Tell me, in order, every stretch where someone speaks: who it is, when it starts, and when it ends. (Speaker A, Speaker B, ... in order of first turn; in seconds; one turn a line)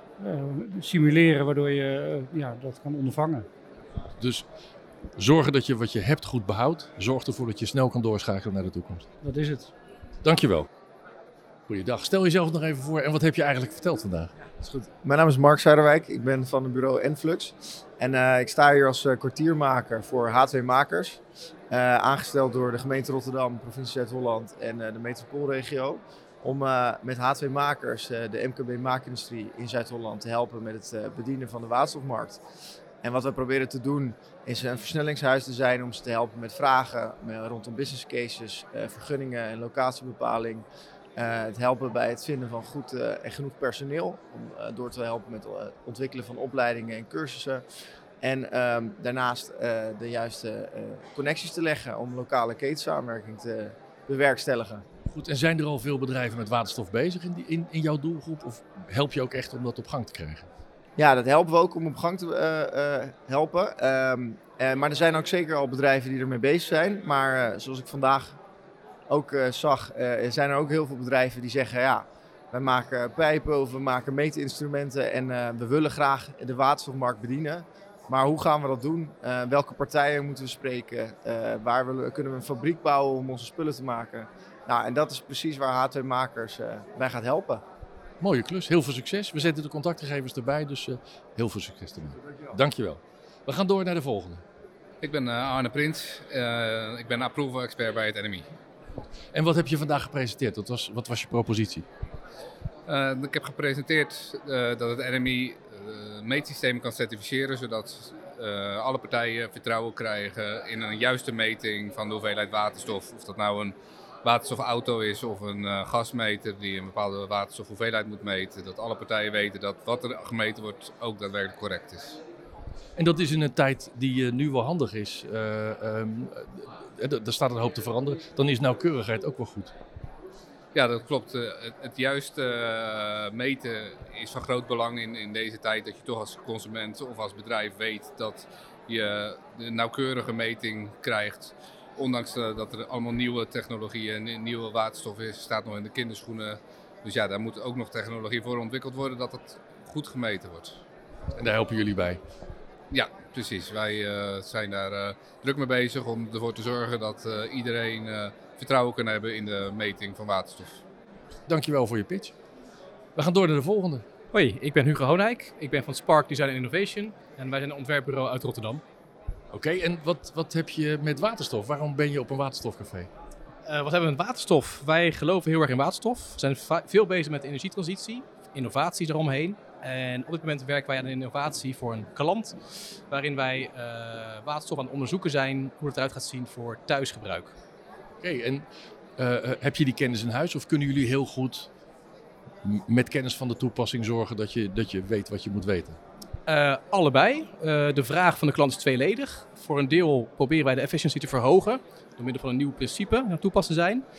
Speaker A: 0.2-3.5
Speaker B: 4.2-4.5
Speaker B: 5.2-9.0
Speaker A: 9.2-9.7
Speaker B: 10.2-10.7
Speaker B: 11.7-14.3
Speaker C: 14.6-32.4
Speaker C: 33.0-40.6
Speaker C: 41.1-47.6
Speaker C: 48.2-54.8
Speaker B: 55.0-60.5
Speaker C: 61.0-68.4
Speaker C: 69.1-87.6
Speaker B: 88.2-94.4
Speaker D: 95.0-98.5
Speaker B: 99.3-101.8
Speaker D: 102.9-122.2
Speaker B: 123.0-129.7
Speaker D: 130.7-150.8
Speaker B: 151.3-152.2
Speaker D: 152.9-160.8
Speaker B: 161.5-162.3
Speaker B: 163.2-164.1
Speaker E: 164.3-168.8
Speaker B: 169.5-173.1
Speaker E: 173.7-182.6
Speaker E: 183.1-187.5
Speaker B: 188.2-188.7
Speaker B: 189.2-191.7
Speaker B: 192.6-196.0
Speaker E: 196.4-204.0